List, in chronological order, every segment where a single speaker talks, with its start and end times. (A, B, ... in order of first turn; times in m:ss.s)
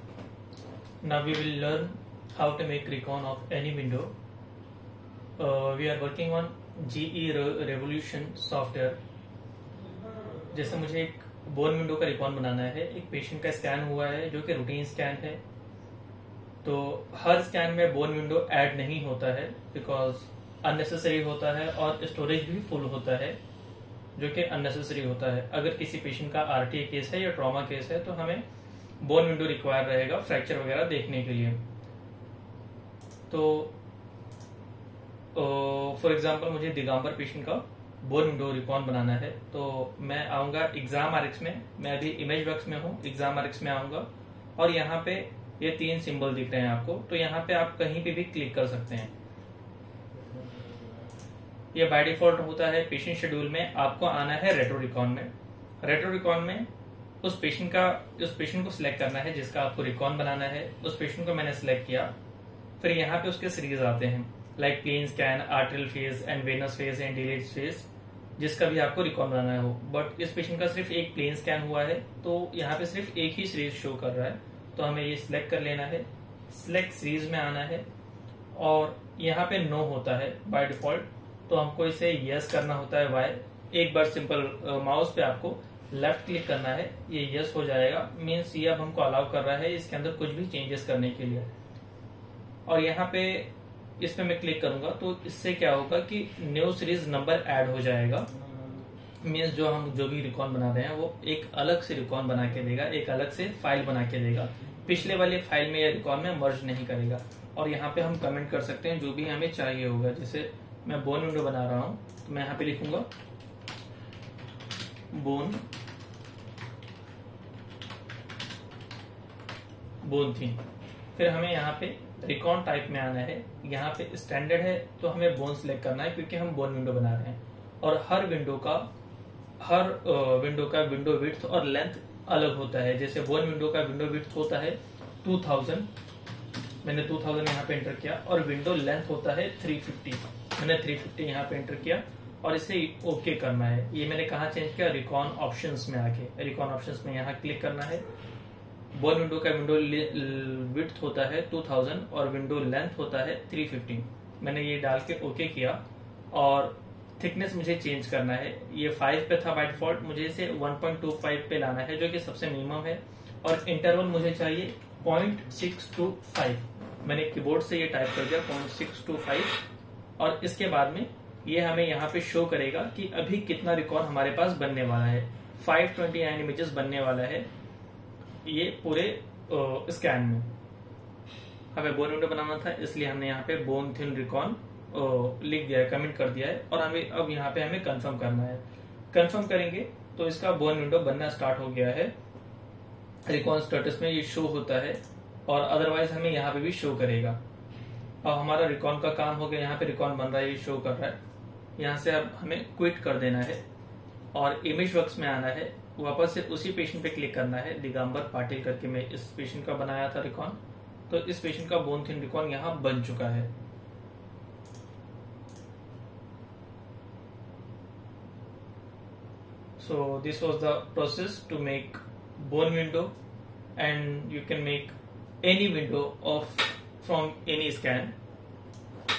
0:01.0-0:04.1 A
0:05.4-0:09.0 A
0:10.5-0:15.4 A
0:16.6-0:23.4 A
0:24.2-0:28.4 A
0:29.0-0:31.6 A
0:33.3-0:33.7 A
0:35.3-0:49.1 A
0:51.7-0:55.3 A
0:55.8-0:56.7 A
0:57.2-1:02.1 A
1:02.8-1:07.9 A
1:08.4-1:17.8 A
1:18.5-1:31.5 A
1:32.6-1:38.3 A
1:39.2-1:53.1 A
1:55.1-1:55.6 A
2:00.0-2:00.6 A
2:01.1-2:08.9 A
2:09.6-2:15.9 A
2:16.8-2:28.0 A
2:28.9-2:35.8 A
2:36.3-2:49.6 A
2:50.2-2:57.5 A
2:58.4-3:00.5 A
3:01.7-3:12.1 A
3:13.2-3:17.4 A
3:18.2-3:21.2 A
3:21.8-3:23.6 A
3:24.3-3:30.6 A
3:31.1-3:33.5 A
3:39.8-3:43.1 A
3:43.8-3:48.1 A